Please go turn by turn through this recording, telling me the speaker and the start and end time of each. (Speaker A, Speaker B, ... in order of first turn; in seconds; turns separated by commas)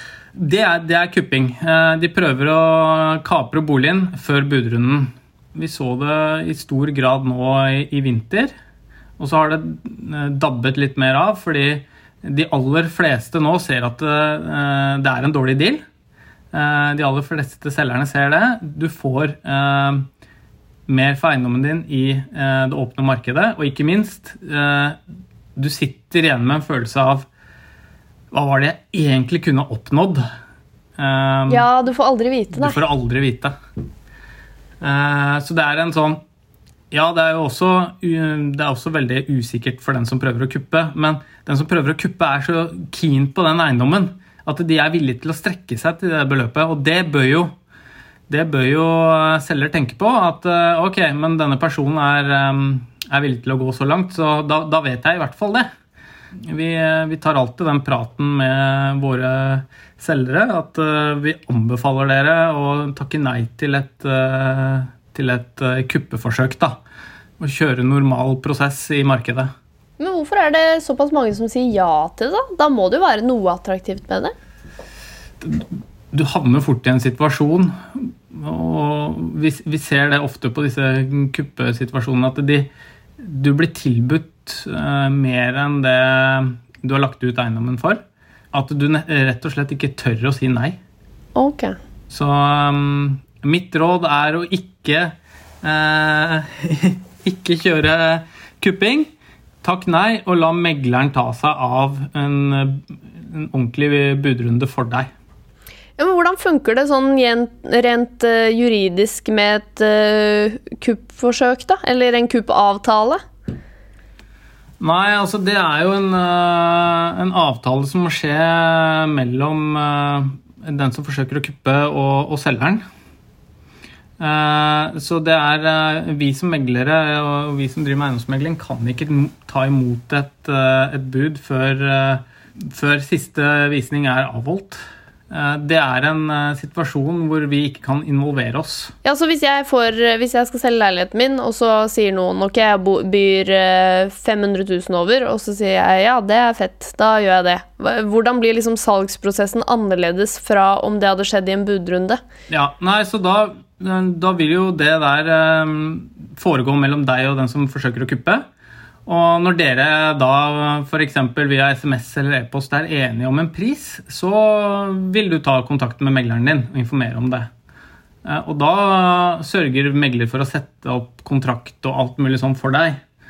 Speaker A: 0.4-8.5, Speaker A: 9.2-15.8, Speaker A: 16.5-20.1, Speaker A: 20.9-25.0, Speaker A: 25.6-27.3, Speaker A: 28.3-30.2, Speaker A: 31.0-31.7, Speaker B: 31.5-32.8, Speaker A: 32.5-33.5, Speaker A: 34.8-36.2, Speaker A: 36.9-47.5, Speaker A: 48.3-55.7, Speaker A: 56.5-66.8, Speaker A: 67.4-69.5, Speaker B: 70.0-74.3, Speaker A: 75.4-82.7, Speaker A: 83.2-88.0, Speaker A: 88.5-90.8, Speaker B: 91.3-91.8, Speaker A: 92.1-99.1, Speaker A: 99.6-105.1, Speaker B: 106.0-113.2, Speaker A: 114.8-122.8, Speaker A: 124.2-134.8, Speaker A: 135.3-138.9, Speaker B: 139.0-152.2, Speaker A: 152.5-158.4, Speaker A: 159.1-167.5, Speaker A: 168.2-173.0